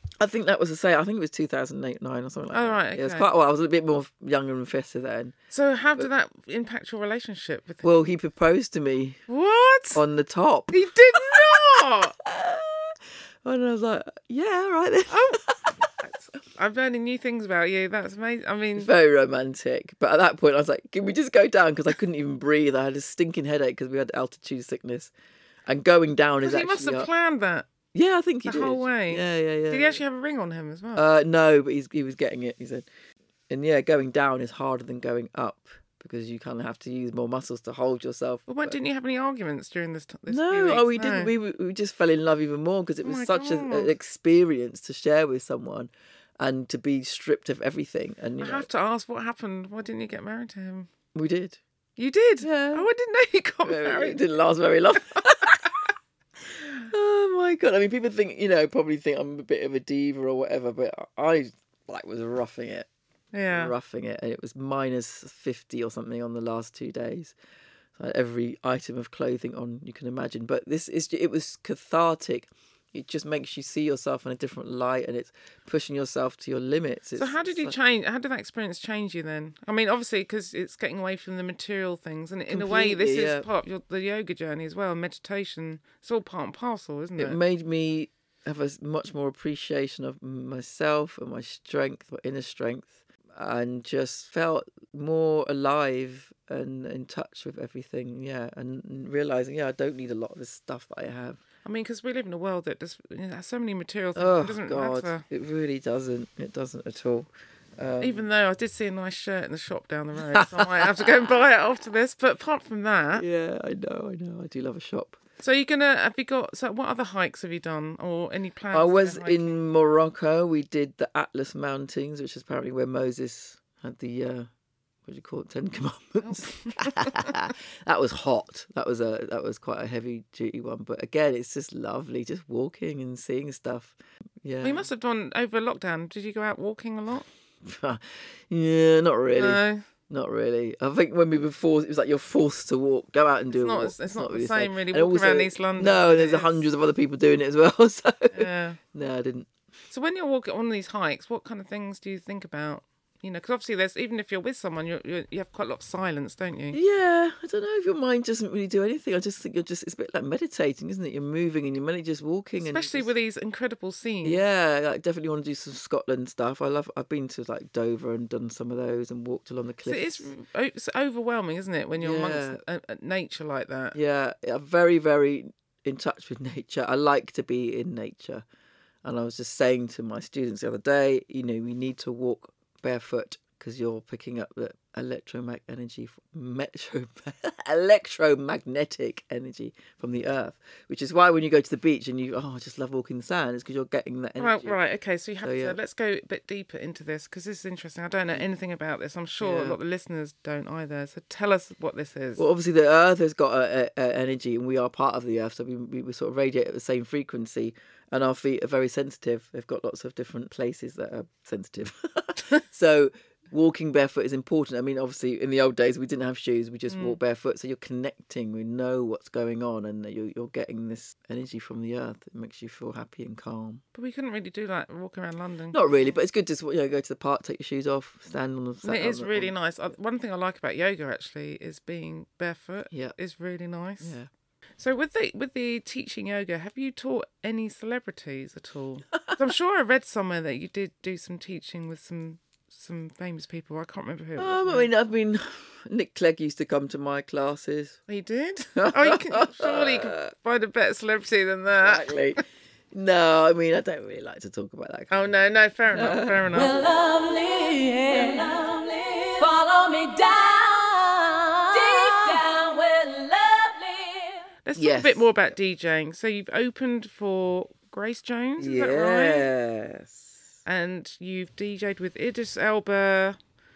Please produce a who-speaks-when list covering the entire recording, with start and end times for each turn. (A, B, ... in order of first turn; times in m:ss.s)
0:00.2-0:05.3 A
0:02.5-0:03.3 B
0:05.5-0:08.0 B
0:07.8-0:09.2 A
0:09.3-0:10.0 B
0:10.0-0:15.7 A
0:10.7-0:12.1 B
0:15.1-0:18.9 B
0:18.8-0:25.1 A
0:25.7-0:27.1 A
0:26.4-0:27.7 B
0:27.9-0:30.0 A
0:28.4-0:31.0 B
0:31.0-0:32.9 A
0:33.5-0:38.8 A
0:38.5-0:41.3 B
0:40.3-0:48.7 A
0:43.0-0:43.9 B
0:48.4-0:50.9 B
0:51.1-0:51.6 A
0:52.0-0:54.2 B
0:52.4-0:52.9 A
0:53.6-0:55.7 A
0:56.9-1:02.9 A
1:03.3-1:03.7 B
1:03.5-1:07.3 A
1:08.0-1:17.7 A
1:17.2-1:27.4 B
1:22.5-1:23.4 A
1:27.2-1:41.4 A
1:41.6-1:45.2 B
1:44.2-1:48.3 A
1:48.0-1:53.2 B
1:50.3-1:51.2 A
1:53.2-1:55.2 A
1:55.4-1:59.5 B
1:58.7-2:04.5 A
2:05.0-2:14.9 A
2:06.2-2:07.4 B
2:14.6-2:17.3 B
2:17.6-2:29.5 A
2:19.4-2:19.8 B
2:23.5-2:26.6 B
2:28.3-2:28.8 B
2:29.9-2:36.8 B
2:36.7-2:43.1 A
2:42.6-2:44.4 B
2:44.2-2:50.3 A
2:49.8-2:54.0 B
2:52.0-2:52.6 A
2:53.9-2:58.4 A
2:59.0-3:14.8 A
3:14.4-3:22.4 B
3:15.4-3:15.8 A
3:19.4-3:19.8 A
3:22.4-3:43.8 A
3:36.9-3:37.2 B
3:44.0-3:45.8 B
3:45.7-3:49.5 A
3:48.8-3:54.2 B
3:54.0-3:54.3 A
3:54.8-4:04.9 B
4:04.4-4:08.0 A
4:08.1-4:12.4 B
4:08.7-4:10.3 A
4:11.7-4:15.3 A
4:15.1-4:16.7 B
4:15.9-4:16.6 A
4:16.5-4:24.4 C
4:24.6-4:29.5 B
4:24.8-4:25.3 A
4:28.6-4:30.3 A
4:30.6-4:33.4 B